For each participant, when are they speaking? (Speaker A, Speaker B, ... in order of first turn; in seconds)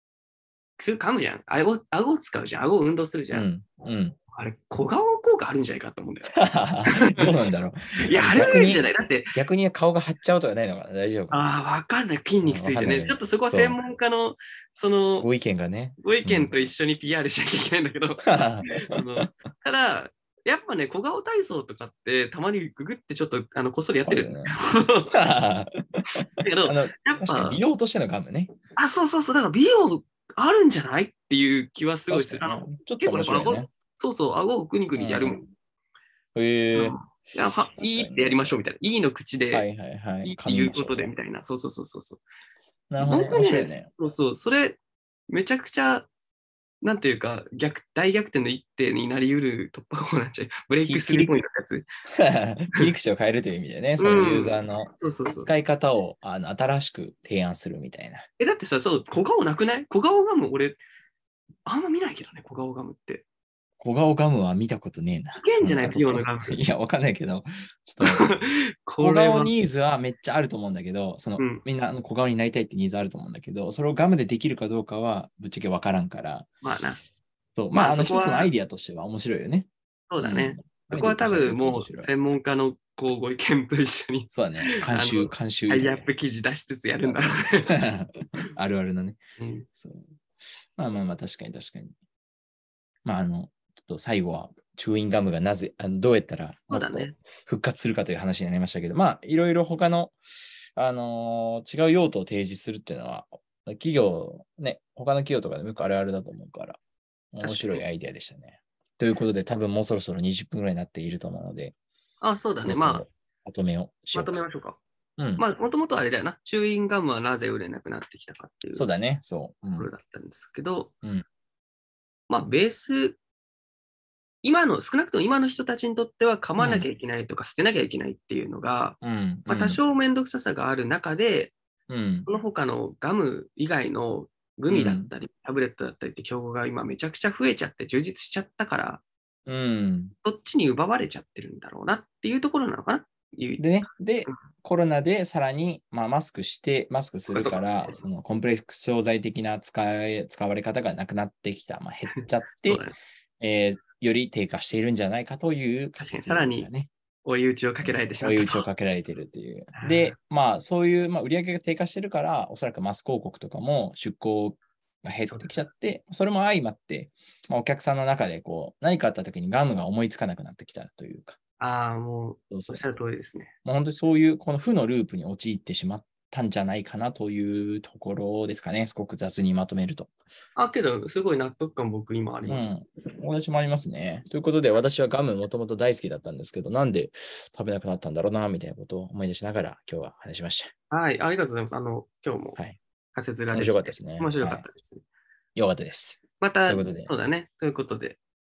Speaker A: 0.8-3.5, 4.3-7.2, 8.0-9.3, 11.3-15.3, 16.0-25.1, 26.4-27.6, 28.8-35.5, 36.7-39.6, 40.2-42.2, 43.0-46.1, 46.8-51.9, 54.0-55.5, 58.4-60.8, 61.6-63.2, 65.4-66.6, 68.0-69.5, 71.4-71.6, 76.6-77.0, 77.7-78.5, 80.1-87.7, 89.4-89.7, 96.7-97.2, 107.4-107.8, 112.2-113.0, 114.1-114.8, 115.4-118.9, 119.8-120.9, 122.3-123.2, 124.4-131.5, 132.2-139.0, 140.2-144.3, 147.3-148.0, 152.7-152.9, 156.0-156.7, 157.2-158.6, 159.7-160.1, 165.3-165.5, 171.6-173.5, 180.6-182.7, 190.9-192.6, 193.1-195.0, 196.4-198.2
Speaker B: 3.3-4.2, 6.3-11.4, 12.4-13.8, 15.2-16.5, 18.2-19.3, 24.1-24.6, 25.1-26.0, 26.6-28.5, 32.1-33.7, 35.0-35.4, 36.3-37.0, 37.8-38.6, 39.5-41.1, 42.9-43.9, 50.8-51.4, 52.1-58.2, 63.8-68.4, 69.0-76.5, 77.5-79.7, 80.2-82.1, 84.3-86.1, 87.1-89.2, 89.8-90.1, 90.8-91.9, 93.0-100.1, 100.8-106.8, 107.3-111.7, 112.6-114.4, 115.2-115.4, 118.7-119.9, 126.6-126.9, 129.0-129.8, 131.9-132.3, 134.7-135.1, 139.4-140.1, 143.6-152.9, 153.4-156.9, 157.8-171.4, 172.5-172.8, 173.6-180.1, 182.5-190.7, 193.5-194.7, 195.6-197.1